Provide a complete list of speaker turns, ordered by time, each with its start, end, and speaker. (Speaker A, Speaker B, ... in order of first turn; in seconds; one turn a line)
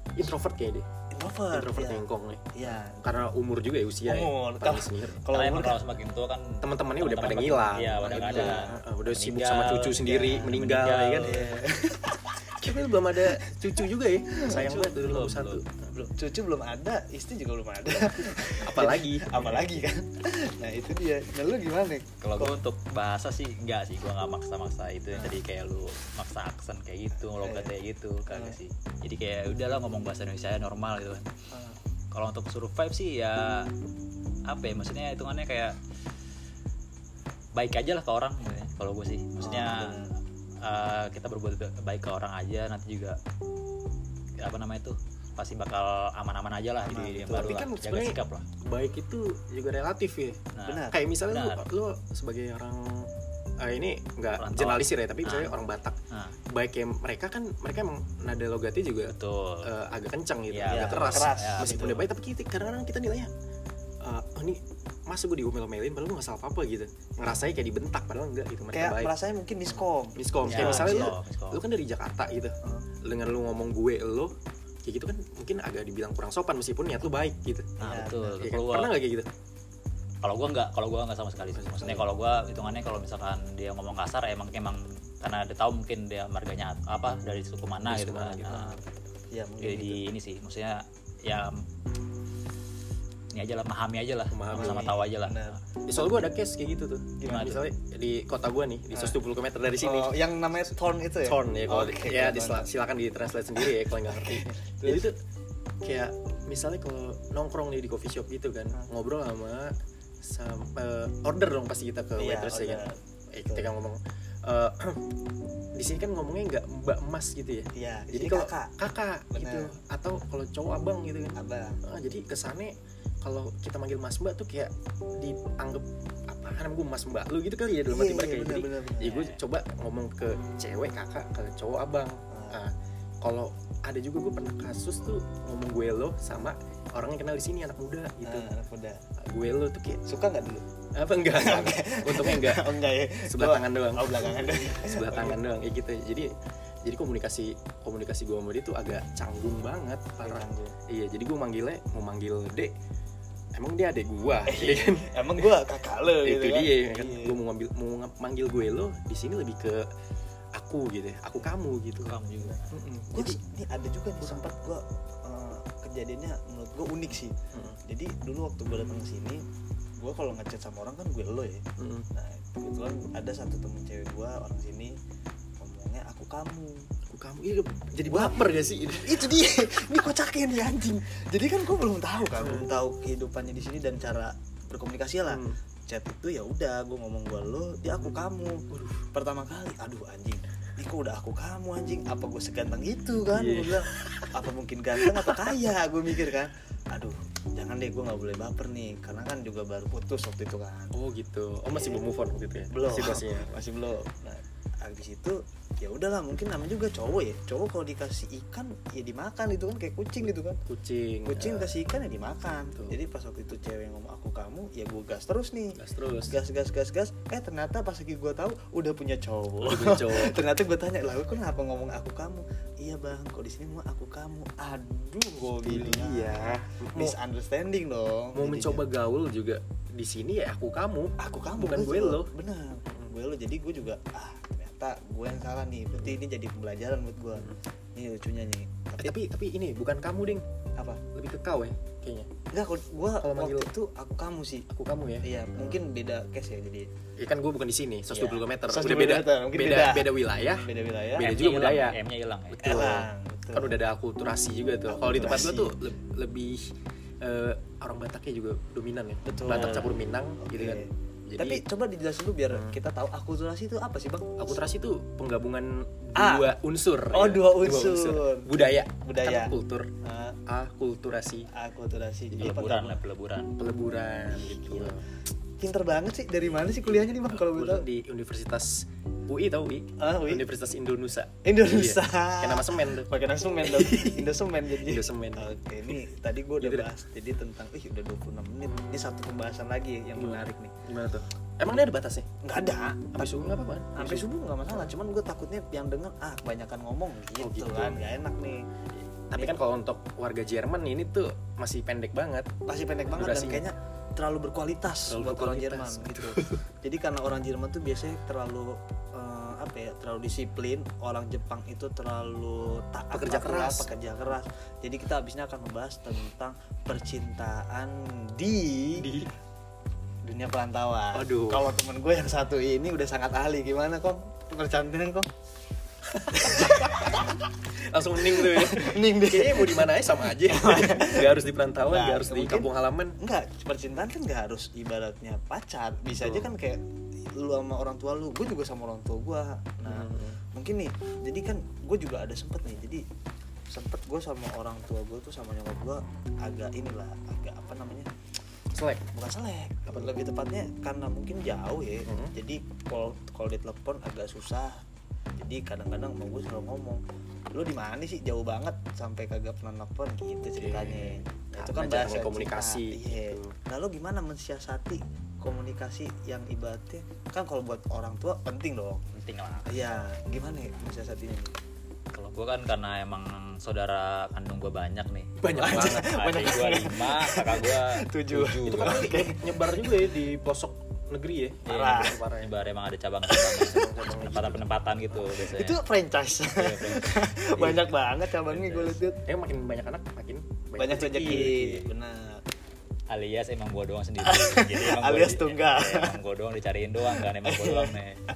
Speaker A: 0.1-0.9
Speaker B: 1.1-3.3
Speaker A: 1.5-5.2
Speaker B: 4.0-5.8
Speaker C: 5.2-11.6
Speaker A: 6.6-11.3
Speaker B: 8.0-8.8
Speaker B: 10.0-10.6
Speaker B: 11.2-14.9
Speaker A: 12.6-15.7
Speaker C: 14.5-15.6
Speaker B: 15.9-22.6
Speaker A: 18.4-19.6
Speaker C: 22.2-31.3
Speaker B: 25.1-25.4
Speaker B: 27.2-27.7
Speaker B: 28.3-28.6
Speaker B: 31.5-31.8
Speaker C: 32.1-33.7
Speaker C: 34.5-35.8
Speaker C: 37.5-40.0
Speaker B: 39.4-40.1
Speaker C: 40.6-43.2
Speaker C: 44.4-48.5
Speaker B: 46.8-47.5
Speaker A: 47.2-56.0
Speaker C: 50.5-51.6
Speaker B: 50.6-51.0
Speaker C: 54.4-55.5
Speaker C: 56.1-56.4
Speaker A: 56.5-63.3
Speaker C: 59.1-59.7
Speaker C: 60.5-61.9
Speaker B: 60.7-62.0
Speaker A: 64.0-69.1
Speaker B: 68.7-71.1
Speaker A: 69.7-77.7
Speaker C: 70.5-71.6
Speaker B: 77.8-78.4
Speaker C: 77.8-78.9
Speaker A: 78.4-79.3
Speaker C: 80.2-88.8
Speaker A: 81.5-82.0
Speaker A: 87.8-88.6
Speaker B: 88.5-90.0
Speaker C: 89.6-91.6
Speaker C: 93.3-95.6
Speaker A: 94.3-94.9
Speaker B: 94.5-96.2
Speaker A: 95.8-105.2
Speaker B: 97.2-97.6
Speaker B: 99.8-102.7
Speaker B: 103.6-105.1
Speaker A: 105.8-115.1
Speaker B: 112.2-113.7
Speaker A: 115.8-138.5
Speaker B: 117.7-118.7
Speaker B: 119.3-119.7
Speaker B: 121.3-121.8
Speaker B: 127.9-129.2
Speaker C: 129.1-129.3
Speaker B: 132.3-132.6
Speaker B: 138.2-139.0
Speaker A: 139.2-140.0
Speaker B: 140.1-140.6
Speaker A: 140.9-142.7
Speaker B: 141.3-145.4
Speaker A: 143.2-146.3
Speaker A: 146.8-152.7
Speaker B: 150.2-150.7
Speaker A: 153.5-155.5
Speaker B: 154.4-157.3
Speaker A: 156.2-159.8
Speaker A: 160.5-162.2
Speaker C: 162.0-162.7
Speaker A: 162.7-163.4
Speaker B: 163.1-167.3
Speaker A: 164.2-164.4
Speaker A: 167.5-167.8
Speaker B: 167.8-169.4
Speaker B: 170.0-175.0
Speaker A: 171.8-172.1
Speaker B: 175.6-176.8
Speaker A: 177.1-179.3
Speaker B: 178.1-178.4
Speaker B: 179.0-200.9
Speaker A: 182.3-182.7
Speaker A: 185.3-185.6
Speaker A: 188.7-189.1
Speaker A: 193.3-194.4
Speaker A: 195.0-195.6
Speaker A: 200.9-203.6
Speaker B: 201.7-202.0
Speaker B: 202.7-210.6
Speaker A: 210.7-211.7
Speaker B: 211.2-228.8
Speaker A: 215.7-216.4
Speaker A: 219.6-220.4
Speaker A: 225.6-227.2
Speaker A: 228.3-232.3
Speaker B: 231.2-239.2
Speaker A: 239.0-240.4
Speaker B: 240.8-241.0
Speaker A: 241.1-242.3
Speaker B: 242.5-244.7
Speaker A: 243.2-243.7
Speaker A: 244.7-245.8
Speaker B: 245.2-246.9
Speaker A: 247.2-252.0
Speaker B: 248.1-250.1
Speaker B: 250.6-251.3
Speaker C: 251.2-252.9
Speaker A: 252.5-261.6
Speaker B: 252.6-253.8
Speaker B: 254.9-255.7
Speaker B: 259.2-264.5
Speaker A: 262.5-262.8
Speaker A: 264.4-269.9
Speaker B: 266.1-266.5
Speaker B: 267.1-270.4
Speaker A: 270.5-271.5
Speaker B: 271.5-273.0
Speaker C: 272.4-273.6
Speaker A: 273.6-275.0
Speaker B: 274.3-275.0
Speaker B: 275.6-277.8
Speaker A: 276.6-283.1
Speaker B: 280.0-280.4
Speaker B: 281.4-290.7
Speaker A: 283.6-286.0
Speaker A: 286.6-286.9
Speaker A: 290.1-292.3
Speaker B: 292.4-293.3
Speaker A: 293.1-294.9
Speaker B: 293.9-298.6
Speaker A: 297.4-298.0
Speaker A: 299.0-302.5
Speaker B: 302.6-319.1
Speaker A: 303.1-303.6
Speaker A: 305.1-306.6
Speaker A: 313.1-313.9
Speaker A: 319.0-319.3
Speaker B: 320.2-325.3
Speaker A: 321.1-321.6
Speaker A: 326.1-333.1
Speaker B: 326.3-327.4
Speaker B: 328.2-336.8
Speaker A: 336.2-336.5
Speaker B: 337.4-343.0
Speaker A: 339.8-340.4
Speaker B: 343.7-348.1
Speaker A: 348.7-349.1
Speaker B: 349.1-354.8
Speaker A: 349.9-350.1
Speaker A: 352.1-352.3
Speaker B: 355.4-357.0
Speaker B: 357.5-369.1
Speaker A: 360.5-363.5
Speaker C: 369.1-369.7
Speaker B: 369.7-371.5
Speaker C: 372.1-379.1
Speaker A: 375.4-376.3
Speaker B: 375.5-380.0
Speaker A: 378.6-382.5
Speaker C: 381.6-385.8
Speaker B: 381.7-382.2
Speaker A: 383.6-384.7
Speaker B: 385.2-389.2
Speaker C: 386.5-387.9
Speaker C: 388.5-389.0
Speaker A: 389.2-391.6
Speaker B: 390.8-392.4
Speaker C: 391.1-391.9
Speaker C: 393.1-398.2
Speaker B: 394.2-396.1
Speaker B: 397.2-397.9